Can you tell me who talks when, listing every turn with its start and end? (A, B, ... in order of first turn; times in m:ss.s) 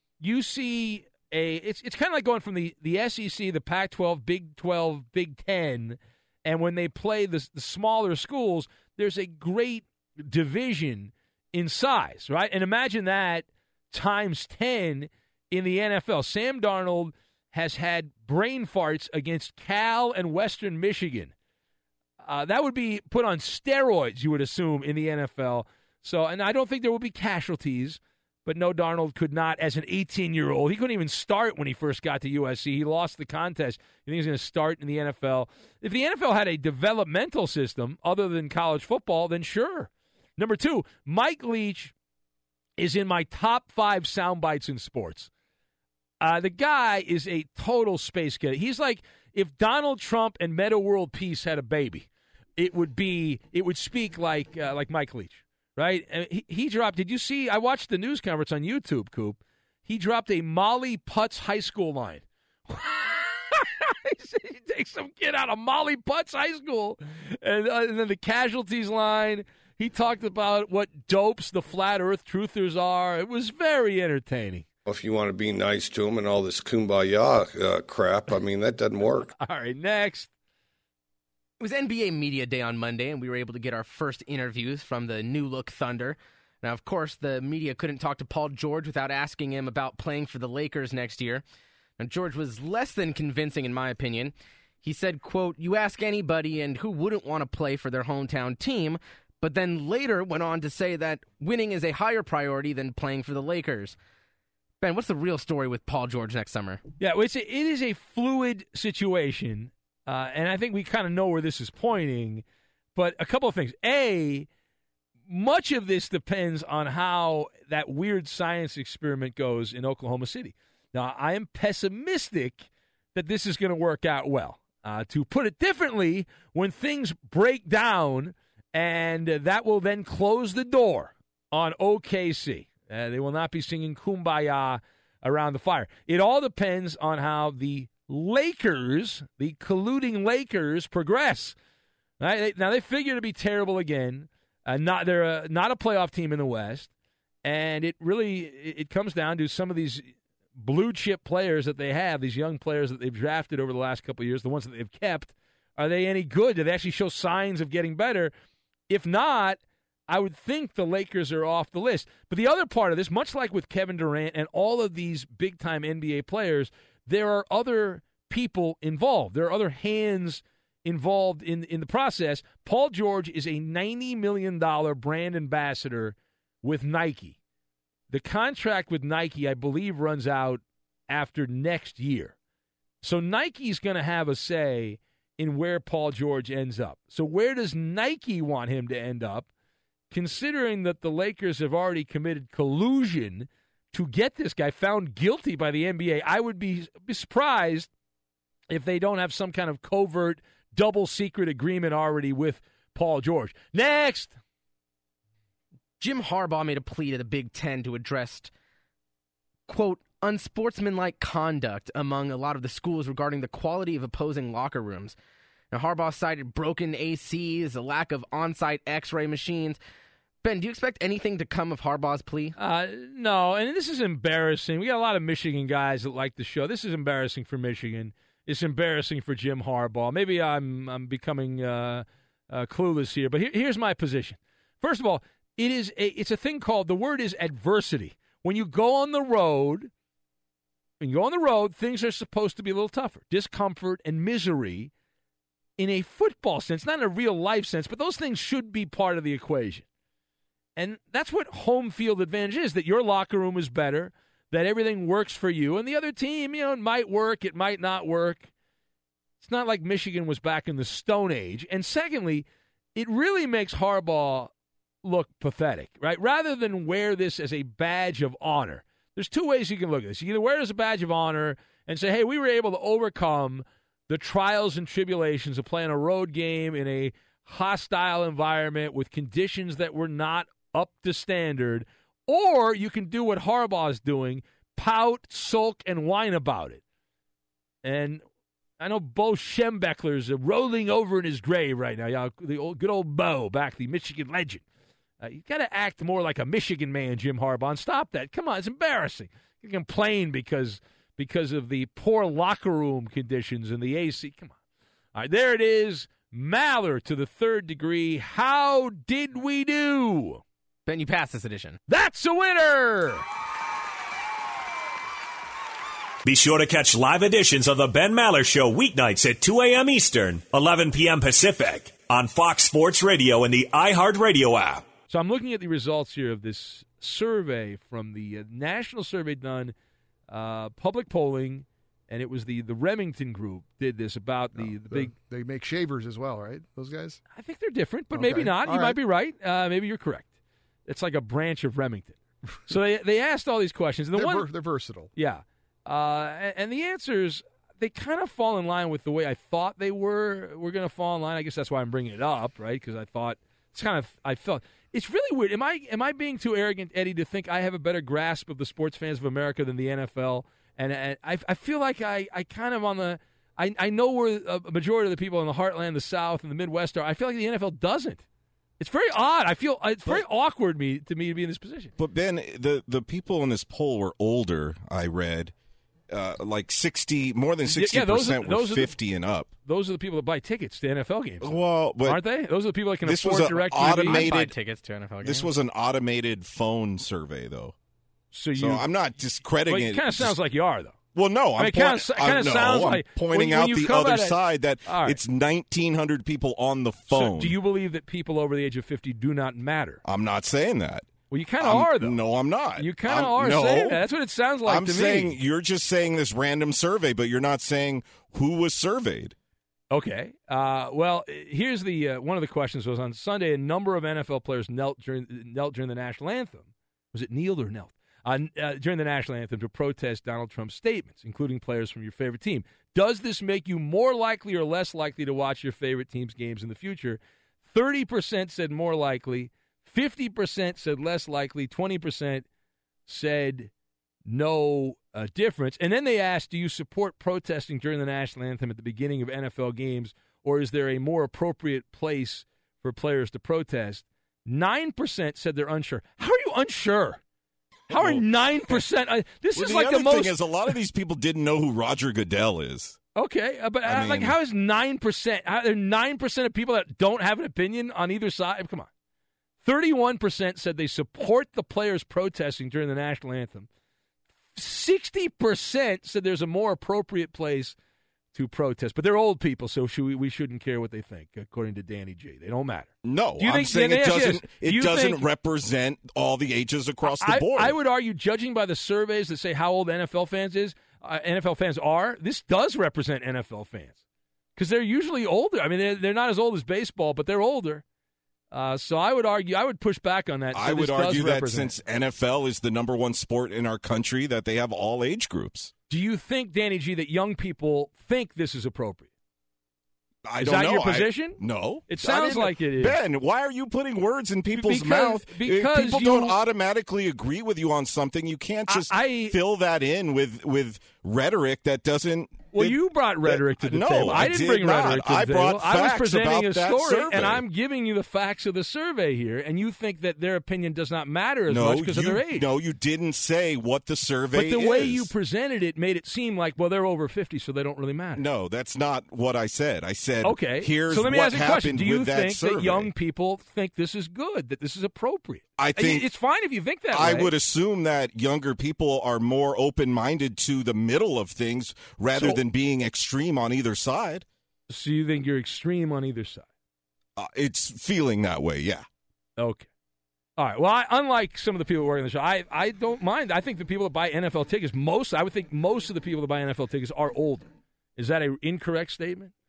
0:00.2-0:21.3 A
0:22.2-0:41.9 A
0:42.8-0:45.3 A
0:46.2-1:14.6 A
1:14.8-1:19.3 B
1:19.3-1:20.3 A
1:21.6-1:31.4 C
1:32.0-1:44.0 C
1:44.8-1:46.8 C
1:47.0-1:52.4 A
1:52.9-1:54.5 A
1:55.3-2:21.5 A
2:22.2-2:26.9 A
2:27.4-2:38.3 A
2:38.9-2:57.4 A
2:58.1-3:02.3 A
3:03.0-3:09.5 A
3:10.1-3:17.9 A
3:18.7-3:24.3 A
3:26.0-3:28.5 C
3:29.7-3:35.2 C
3:35.7-3:39.8 C
3:40.4-3:42.6 C
3:42.6-3:59.9 A
4:01.0-4:04.9 A
4:05.8-4:09.8 A
4:10.8-4:18.5 A
4:19.4-4:24.5 A
4:25.0-4:46.8 A
4:47.8-4:48.2 A
4:48.8-4:54.6 A
4:55.2-5:04.5 A
5:05.1-5:10.4 A
5:10.8-5:11.8 C
5:11.9-5:13.2 A
5:16.2-5:24.9 D
5:25.1-5:29.7 A
5:30.3-5:35.1 A
5:34.5-5:37.2 E
5:37.3-5:40.3 A
5:38.1-5:39.0 E
5:40.8-5:44.5 A
5:44.1-5:45.1 E
5:45.1-6:08.2 A
6:08.8-6:11.9 A
6:12.0-6:15.5 F
6:16.1-6:19.5 F
6:17.7-6:18.9 A
6:19.6-6:24.3 A
6:21.4-6:22.2 F
6:23.0-6:24.5 F
6:23.8-6:25.5 C
6:25.2-6:27.7 F
6:28.3-6:28.9 A
6:28.5-6:30.4 F
6:29.6-6:31.0 A
6:31.1-6:37.6 F
6:31.6-6:35.2 A
6:37.1-6:40.0 A
6:40.0-6:44.0 F
6:41.3-6:42.2 A
6:42.8-6:45.4 A
6:44.6-6:49.3 F
6:49.9-7:12.4 A
7:13.1-7:13.7 A
7:14.3-7:27.2 A
7:27.9-7:30.8 A
7:27.9-7:28.8 F
7:29.6-7:33.0 F
7:33.2-7:38.9 A
7:33.8-7:34.4 F
7:39.6-7:43.7 A
7:44.6-7:47.7 A
7:48.3-7:55.2 A
7:53.0-7:57.8 F
7:57.0-8:04.0 A
8:04.6-8:07.8 A
8:08.5-8:11.7 A
8:10.5-8:15.7 F
8:15.9-8:19.1 A
8:20.2-8:37.4 F
8:20.4-8:23.0 A
8:24.5-8:26.4 A
8:28.7-8:29.4 A
8:32.5-8:42.5 A
8:41.5-8:45.1 F
8:44.3-8:48.3 A
8:48.1-8:52.9 F
8:50.2-8:57.3 A
8:55.6-8:56.0 F
8:56.9-9:04.2 F
9:02.1-9:02.4 A
9:04.7-9:06.4 A
9:07.2-9:08.8 F
9:09.4-9:09.7 A
9:10.4-9:19.3 A